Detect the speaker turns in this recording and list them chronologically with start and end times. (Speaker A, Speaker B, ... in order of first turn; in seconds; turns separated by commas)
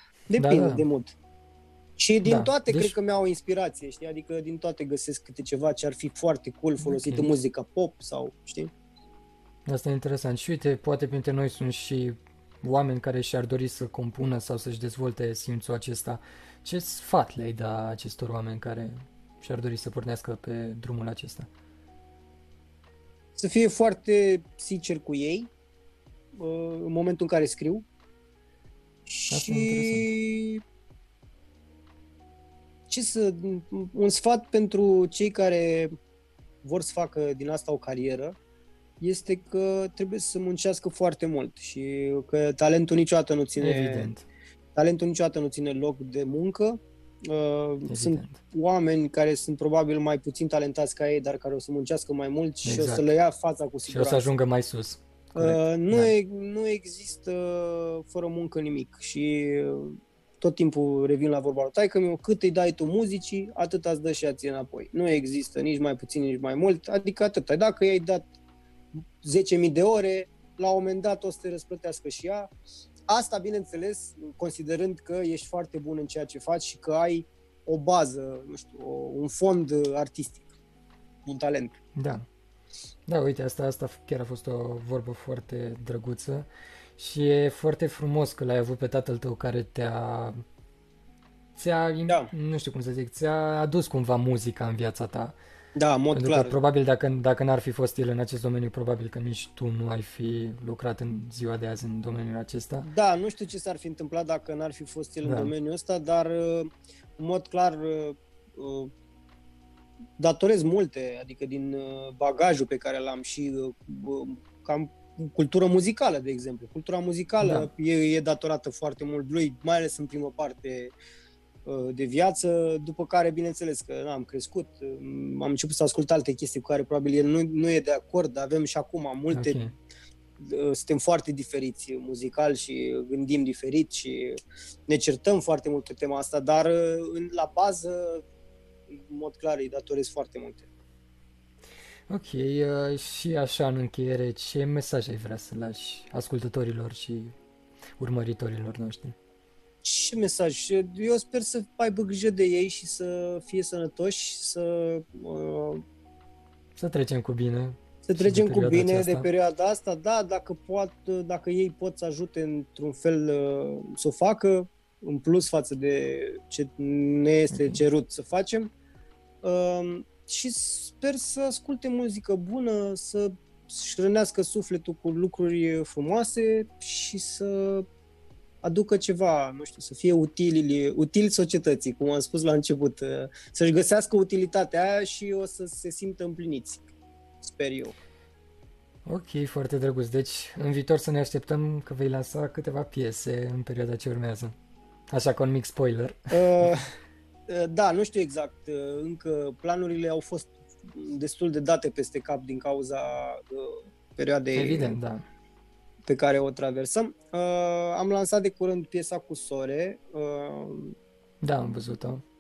Speaker A: 0.3-1.1, Speaker B: 0.4-0.8, Speaker A: 2.0-8.7, Speaker B: 2.2-3.0, Speaker B: 6.8-7.3, Speaker B: 9.7-21.5, Speaker A: 23.4-25.5, Speaker A: 26.4-27.9, Speaker A: 29.1-30.6, Speaker B: 29.3-30.1, Speaker A: 32.9-35.9, Speaker A: 36.6-38.4, Speaker A: 39.0-44.1, Speaker B: 43.6-44.2, Speaker A: 44.8-54.3, Speaker B: 47.9-48.4, Speaker B: 52.6-53.1, Speaker B: 53.9-56.1, Speaker A: 55.4-68.3, Speaker A: 69.2-72.5, Speaker A: 73.1-80.5, Speaker A: 81.3-81.8, Speaker B: 82.0-82.2, Speaker B: 83.1-90.4, Speaker B: 91.6-95.4, Speaker A: 95.8-96.6, Speaker B: 96.1-102.9, Speaker A: 102.8-108.9, Speaker B: 105.2-105.5, Speaker A: 110.2-120.9, Speaker B: 117.4-117.7, Speaker A: 121.7-129.7, Speaker B: 129.3-129.7, Speaker A: 130.4-134.4, Speaker A: 134.9-138.2, Speaker A: 138.9-140.7, Speaker B: 142.1-147.3, Speaker B: 148.0-149.2, Speaker A: 149.8-155.8, Speaker B: 156.8-159.3, Speaker A: 158.1-168.7, Speaker B: 167.5-167.8, Speaker A: 169.4-177.9, Speaker A: 178.6-186.9, Speaker A: 187.4-187.9, Speaker B: 189.1-194.6, Speaker B: 195.1-196.7, Speaker A: 196.3-196.9, Speaker A: 197.5-205.0, Speaker B: 204.6-205.2, Speaker A: 206.1-210.9, Speaker B: 211.4-212.2